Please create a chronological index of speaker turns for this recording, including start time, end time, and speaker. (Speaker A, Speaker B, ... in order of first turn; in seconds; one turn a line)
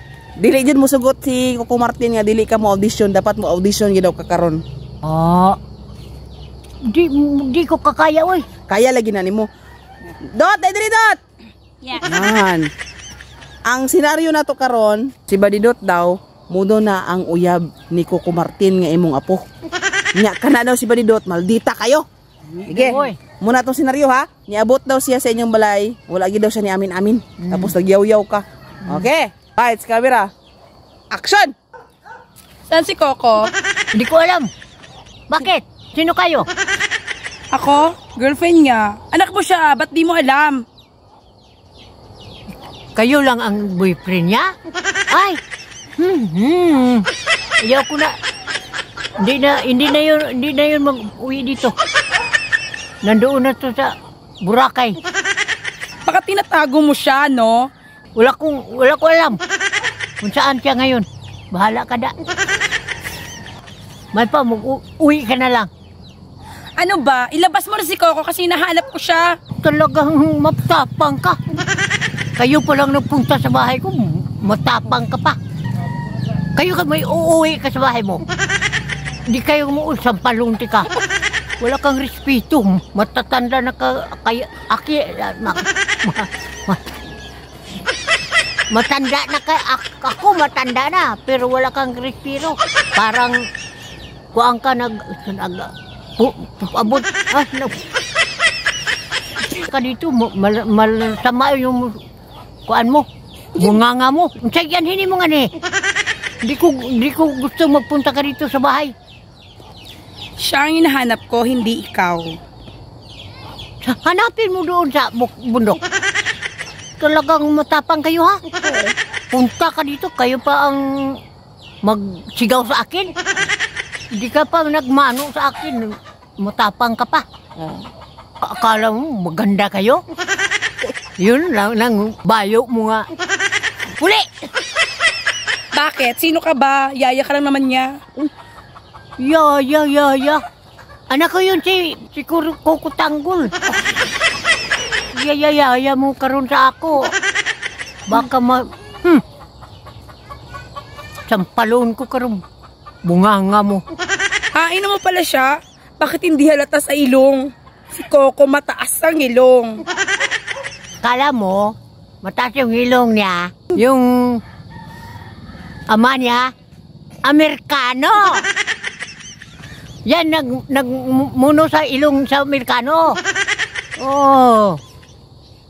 Speaker A: 0.4-4.6
Speaker B: 5.0-5.6
Speaker B: 6.9-8.4
Speaker A: 8.7-9.5
Speaker A: 10.3-11.2
Speaker C: 11.8-12.1
Speaker A: 12.0-12.7
Speaker A: 13.7-19.4
Speaker A: 20.1-22.0
Speaker A: 22.6-30.3
Speaker B: 22.7-23.2
Speaker B: 27.4-27.7
Speaker A: 31.1-31.5
Speaker C: 32.7-33.5
Speaker B: 33.9-34.5
Speaker B: 35.3-36.5
Speaker C: 37.5-40.6
Speaker B: 42.9-44.5
Speaker B: 45.1-45.4
Speaker B: 46.0-47.1
Speaker B: 47.6-48.1
Speaker B: 49.2-51.7
Speaker B: 53.0-53.9
Speaker B: 54.4-55.0
Speaker C: 56.0-57.7
Speaker B: 58.1-59.4
Speaker B: 60.2-62.1
Speaker B: 64.1-65.7
Speaker C: 66.8-69.4
Speaker B: 69.6-71.4
Speaker B: 72.4-75.4
Speaker B: 76.5-78.2
Speaker B: 79.3-80.9
Speaker B: 81.6-86.8
Speaker B: 88.7-93.4
Speaker B: 94.3-97.7
Speaker B: 99.5-102.0
Speaker B: 102.7-105.5
Speaker B: 106.4-108.9
Speaker C: 110.4-112.4
Speaker B: 113.8-115.8
Speaker B: 117.0-118.4
Speaker B: 119.3-121.2
Speaker B: 121.8-123.1
Speaker B: 124.1-127.2
Speaker B: 128.4-130.0
Speaker B: 131.2-133.1
Speaker B: 134.0-134.3
Speaker C: 135.7-138.0
Speaker B: 139.2-140.4
Speaker B: 141.1-143.5
Speaker B: 145.1-147.1
Speaker B: 148.1-149.2
Speaker B: 151.3-152.4
Speaker B: 153.0-153.8
Speaker C: 154.5-159.8
Speaker B: 161.0-164.4
Speaker B: 165.9-166.5
Speaker B: 167.2-168.4
Speaker B: 170.1-173.2
Speaker B: 174.0-174.8